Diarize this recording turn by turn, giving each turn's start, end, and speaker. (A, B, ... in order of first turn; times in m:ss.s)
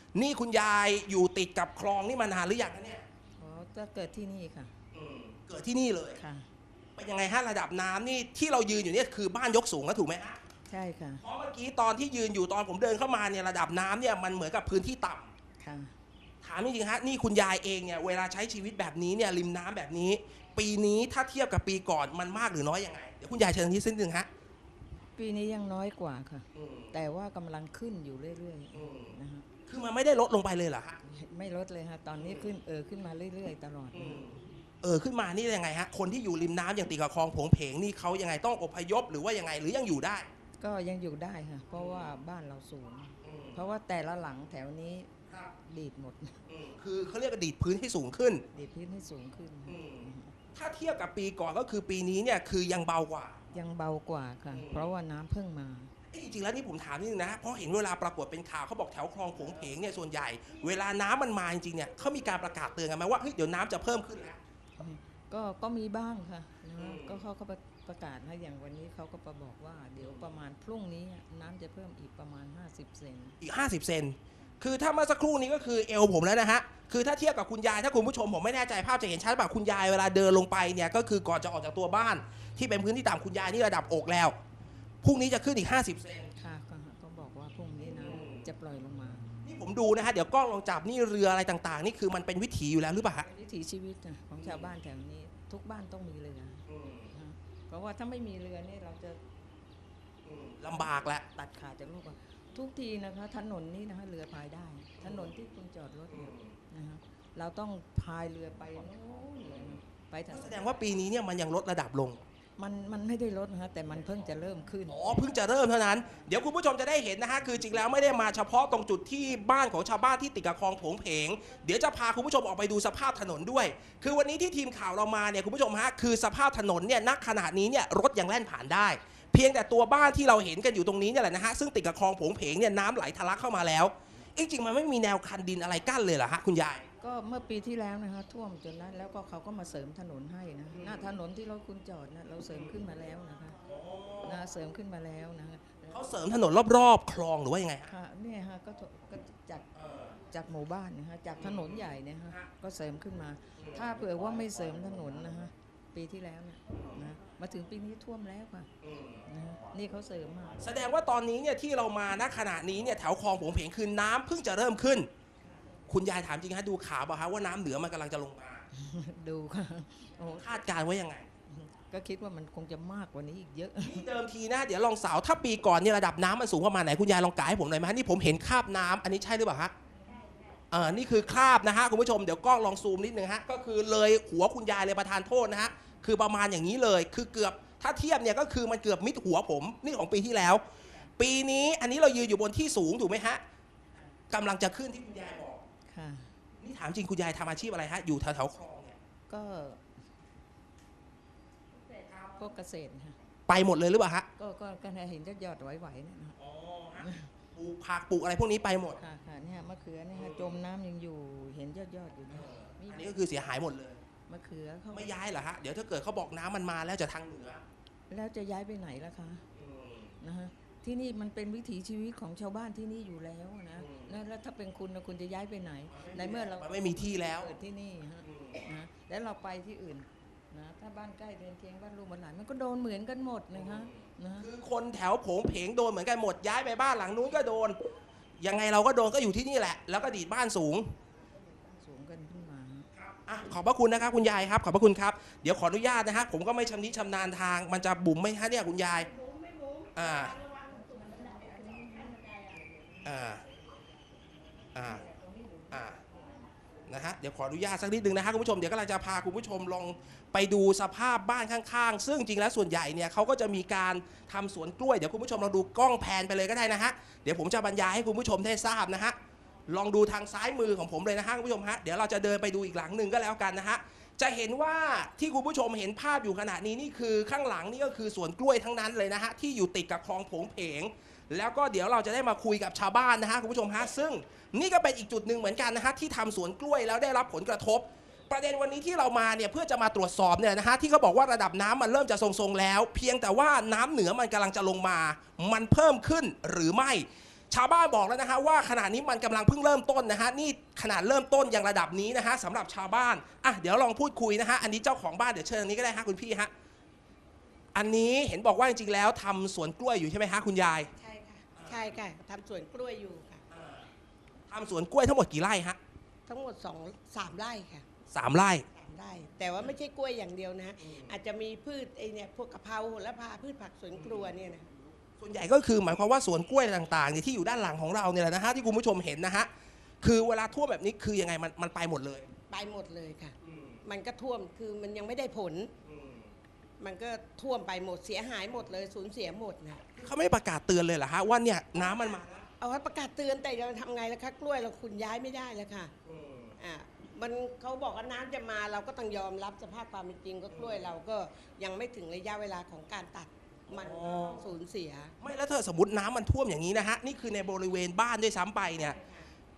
0:00.2-0:03.0 A
0:03.4-0:04.7 B
0:04.9-0:06.2 A
0:06.2-0:06.5 B
0:07.0-0:10.4 A
0:10.7-0:11.2 B
0:11.2-0:15.3 A
0:15.6-0:15.9 B
0:16.4-0:24.3 A
0:25.2-0:29.4 B
0:26.5-0:26.9 A
0:28.7-0:29.1 A
0:29.7-0:31.0 A
0:31.0-0:34.2 B
0:32.2-0:32.5 A
0:33.9-0:40.3 A
0:40.6-0:46.4 B
0:41.7-0:42.2 A
0:43.2-0:43.6 A
0:46.5-0:48.4 A
0:48.5-0:50.3 B
0:49.7-0:53.4 A
0:53.5-0:55.9 B
0:54.5-0:54.9 A
0:56.1-1:04.4 A
1:04.8-1:13.4 B
1:06.8-1:07.2 A
1:10.0-1:10.3 A
1:13.4-1:24.4 A
1:25.0-1:26.3 A
1:26.4-1:29.3 B
1:28.0-1:28.4 A
1:29.4-1:33.2 A
1:33.2-1:39.2 B
1:34.4-1:34.7 A
1:36.7-1:37.1 A
1:40.2-1:41.2 A
1:41.3-1:50.6 B
1:45.0-1:45.3 A
1:46.1-1:46.5 A
1:50.3-1:52.2 A
1:52.6-1:55.0 B
1:54.9-2:16.8 A
2:17.0-2:23.6 B
2:20.7-2:21.1 A
2:23.6-2:24.4 A
2:24.2-2:26.0 B
2:25.9-2:27.9 A
2:27.9-2:29.7 B
2:29.8-2:30.1 A
2:30.3-2:38.7 B
2:31.4-2:32.5 A
2:38.8-2:39.2 A
2:39.2-2:40.6 B
2:40.6-2:45.1 A
2:45.9-2:48.6 A
2:48.7-2:50.5 B
2:50.4-2:51.2 A
2:51.5-2:54.0 B
2:53.8-2:59.7 A
3:00.7-3:10.6 A
3:11.2-3:13.4 A
3:14.3-3:15.6 A
3:15.9-3:16.3 B
3:16.6-3:19.0 A
3:19.3-3:19.8 B
3:22.0-3:23.2 B
3:23.5-3:24.3 A
3:24.4-3:26.4 B
3:26.4-3:29.0 A
3:27.0-3:27.3 B
3:29.0-3:33.2 B
3:30.1-3:30.6 A
3:32.3-3:34.0 A
3:34.3-3:35.1 B
3:34.9-3:37.6 A
3:38.1-3:39.4 B
3:39.6-3:40.1 A
3:40.2-3:54.5 B
3:43.8-3:44.1 A
3:45.9-3:47.5 A
3:48.2-3:48.7 A
3:53.5-3:57.8 A
3:58.4-4:00.9 A
4:01.7-4:02.9 B
4:03.0-4:09.1 A
4:09.2-4:12.3 C
4:09.9-4:10.4 A
4:10.9-4:12.9 B
4:13.0-4:13.4 A
4:14.8-4:15.1 A
4:15.0-4:16.2 B
4:15.7-4:16.0 A
4:16.9-4:29.2 A
4:29.7-5:06.5 A
5:07.8-5:10.9 A
5:11.0-5:13.4 C
5:13.5-5:13.9 A
5:14.5-5:15.8 A
5:16.3-5:17.9 C
5:18.1-5:18.7 A
5:18.8-5:24.7 C
5:20.8-5:21.1 A
5:25.2-5:29.5 A
5:30.0-5:32.3 A
5:32.5-5:35.7 C
5:33.4-5:33.8 A
5:35.8-5:36.3 A
5:36.8-5:39.8 C
5:40.0-5:42.5 A
5:42.6-5:45.9 C
5:46.0-5:46.5 A
5:46.6-5:55.2 C
5:50.5-5:50.9 A
5:53.7-5:54.4 A
5:55.2-5:59.0 A
5:58.9-5:59.2 C